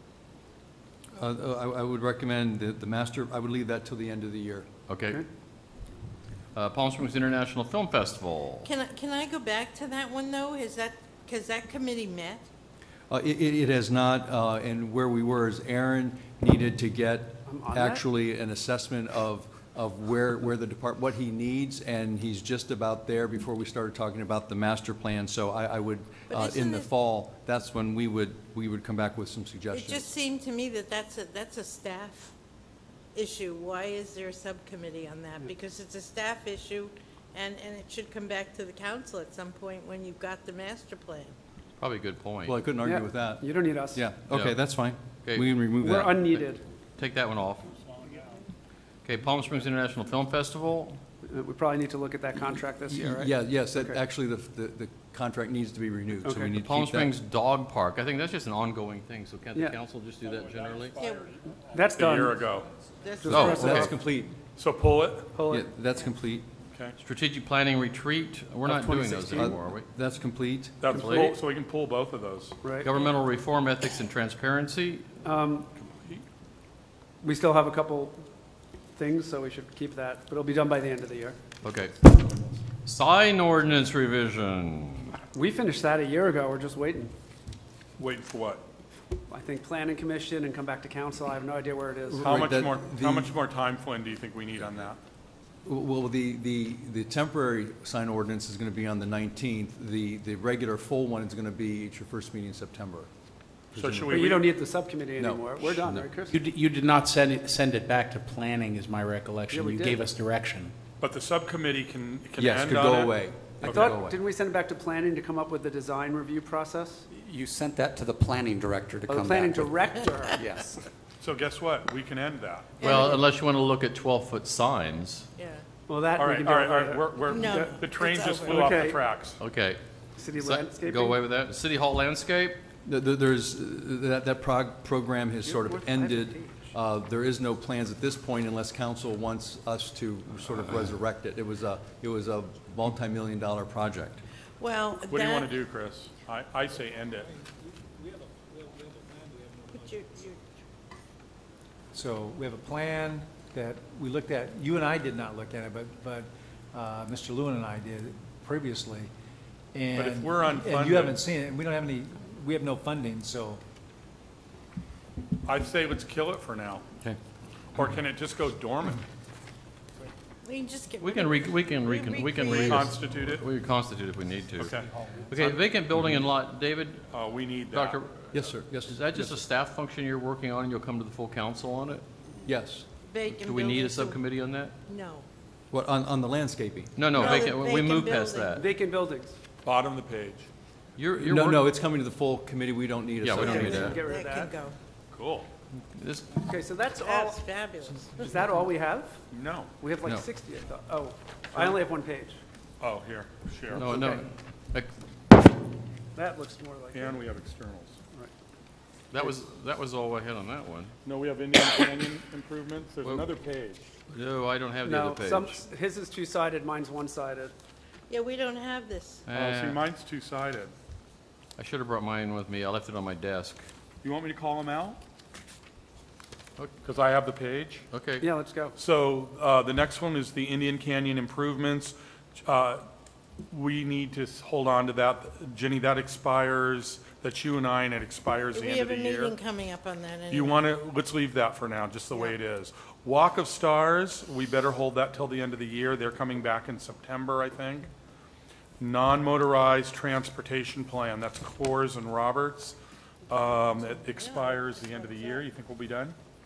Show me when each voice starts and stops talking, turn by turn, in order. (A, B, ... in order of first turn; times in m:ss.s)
0:01.1-0:04.7 A
0:04.9-0:05.2 B
0:06.5-0:08.7 B
0:08.6-0:12.4 C
0:13.1-0:30.0 A
0:17.4-0:18.0 D
0:26.3-0:26.9 C
0:29.7-0:32.3 C
0:33.1-0:41.3 C
0:41.8-0:42.6 B
0:42.4-0:46.2 A
0:42.8-0:44.1 D
0:44.3-0:44.6 B
0:45.2-0:45.6 B
0:45.8-0:46.6 D
0:47.0-0:47.7 B
0:49.0-0:51.0 B
0:51.2-0:54.0 D
0:52.9-0:57.1 A
0:56.2-0:56.5 D
0:56.6-1:01.0 B
1:00.3-1:02.7 E
1:01.0-1:01.3 C
1:01.5-1:02.4 D
1:03.0-1:03.9 C
1:03.2-1:03.9 D
1:03.2-1:04.4 A
1:03.3-1:03.9 B
1:04.6-1:05.3 E
1:05.3-1:05.7 D
1:05.5-1:06.5 A
1:07.0-1:09.9 B
1:08.6-1:10.8 A
1:09.1-1:09.4 D
1:10.8-1:12.6 E
1:10.9-1:11.4 B
1:10.9-1:11.4 D
1:12.6-1:12.9 D
1:12.8-1:15.1 B
1:15.2-1:15.7 D
1:17.2-1:18.2 D
1:19.0-1:21.4 D
1:21.6-1:25.1 B
1:25.3-1:27.1 D
1:28.0-1:28.6 E
1:29.3-1:32.3 D
1:32.1-1:33.3 A
1:32.2-1:35.0 E
1:35.6-1:43.1 A
1:43.7-1:44.3 A
1:43.8-1:44.5 E
1:44.1-1:46.4 D
1:45.2-1:46.1 A
1:46.3-1:50.7 F
1:49.5-1:50.1 D
1:51.0-1:54.0 E
1:52.4-1:54.2 A
1:53.6-1:57.0 D
1:57.1-2:00.7 G
1:59.1-2:00.8 D
2:01.2-2:02.8 E
2:02.8-2:03.2 C
2:02.8-2:05.3 B
2:05.4-2:05.6 C
2:05.9-2:07.8 D
2:06.2-2:09.4 E
2:07.3-2:08.7 C
2:08.4-2:09.0 D
2:09.4-2:12.6 B
2:10.2-2:11.2 D
2:12.8-2:24.2 A
2:15.4-2:16.7 D
2:24.6-2:25.5 C
2:25.1-2:27.3 E
2:28.1-2:29.1 H
2:29.7-2:30.4 C
2:31.9-2:39.1 H
2:39.7-2:43.6 H
2:39.9-2:41.3 E
2:45.4-2:46.8 E
2:47.7-2:49.0 E
2:50.4-2:52.9 C
2:51.0-2:54.7 B
2:52.6-2:53.4 E
2:54.6-2:54.8 E
2:55.2-2:57.0 B
2:57.1-2:58.0 E
2:57.7-3:02.0 B
2:58.3-2:59.4 A
3:02.4-3:02.8 A
3:03.0-3:04.2 C
3:03.3-3:04.7 B
3:04.9-3:05.3 C
3:05.7-3:06.9 A
3:07.0-3:08.7 B
3:07.1-3:08.6 C
3:07.1-3:07.5 E
3:08.6-3:09.4 D
3:09.6-3:10.5 E
3:11.0-3:11.7 B
3:11.2-3:14.0 A
3:13.2-3:14.0 B
3:13.4-3:14.5 D
3:13.4-3:14.8 C
3:15.1-3:15.5 E
3:15.9-3:16.3 B
3:16.4-3:17.4 D
3:17.0-3:18.3 C
3:18.1-3:19.2 D
3:19.3-3:19.7 E
3:19.8-3:22.4 D
3:22.8-3:24.0 E
3:23.7-3:24.9 B
3:23.8-3:24.2 D
3:26.1-3:27.3 D
3:26.9-3:28.0 E
3:29.1-3:30.9 B
3:31.0-3:33.8 E
3:34.1-3:35.6 B
3:34.8-3:37.5 D
3:38.1-3:39.2 C
3:39.3-3:39.8 B
3:39.3-3:40.7 E
3:41.6-3:43.6 B
3:44.0-3:45.0 E
3:46.8-3:47.8 E
3:47.9-3:48.3 B
3:48.2-3:48.8 D
3:48.8-3:52.8 E
3:53.5-3:59.4 E
3:58.5-4:00.6 C
4:00.3-4:07.9 E
4:08.8-4:12.8 E
4:13.3-4:16.2 E
4:14.2-4:15.5 C